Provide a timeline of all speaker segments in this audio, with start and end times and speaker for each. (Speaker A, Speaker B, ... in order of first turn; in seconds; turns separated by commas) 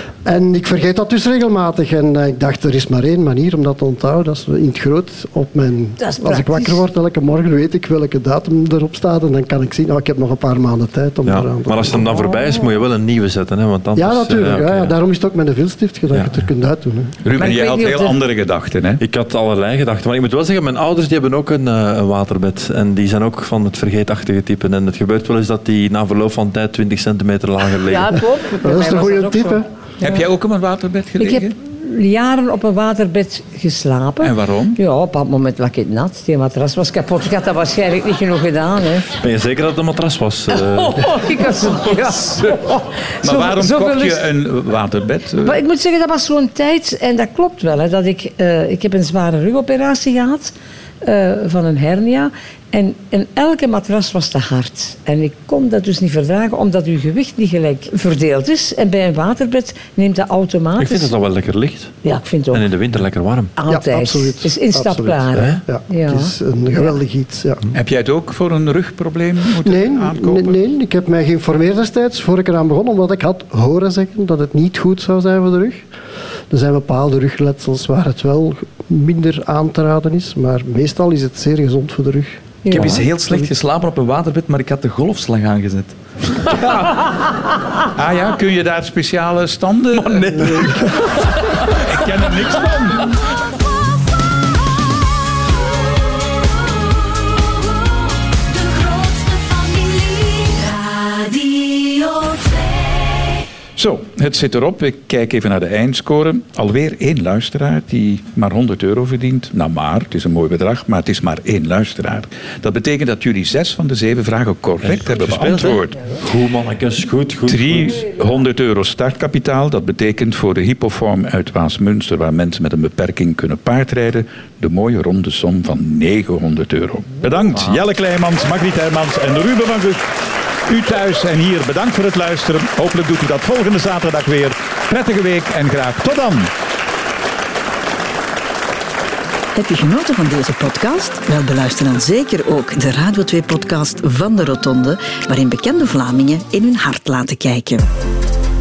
Speaker A: 0.2-12.2, Speaker B: 6.0-6.9, Speaker C: 11.3-14.9, Speaker B: 12.0-12.7, Speaker A: 14.0-17.1, Speaker C: 16.1-16.4, Speaker D: 17.2-19.0, Speaker B: 17.4-18.2, Speaker C: 19.0-28.2, Speaker B: 27.9-30.2, Speaker A: 28.6-29.7, Speaker D: 30.0-31.5, Speaker B: 31.2-39.1, Speaker D: 34.2-34.8, Speaker C: 39.2-41.1, Speaker B: 40.5-44.3, Speaker D: 43.2-45.6, Speaker B: 45.4-61.1, Speaker C: 60.8-61.9, Speaker B: 62.0-62.6, Speaker C: 62.5-63.5, Speaker B: 63.6-67.0, Speaker A: 63.7-67.7, Speaker C: 65.4-65.6, Speaker D: 67.7-70.6, Speaker A: 69.6-75.9, Speaker A: 76.5-83.0, Speaker B: 82.6-83.0, Speaker E: 82.7-86.7, Speaker D: 88.0-90.9, Speaker E: 89.9-91.2, Speaker D: 91.6-93.1, Speaker F: 95.5-103.4, Speaker D: 103.8-116.0, Speaker C: 114.8-118.1, Speaker D: 117.5-130.1, Speaker D: 130.7-136.5, Speaker G: 139.5-147.8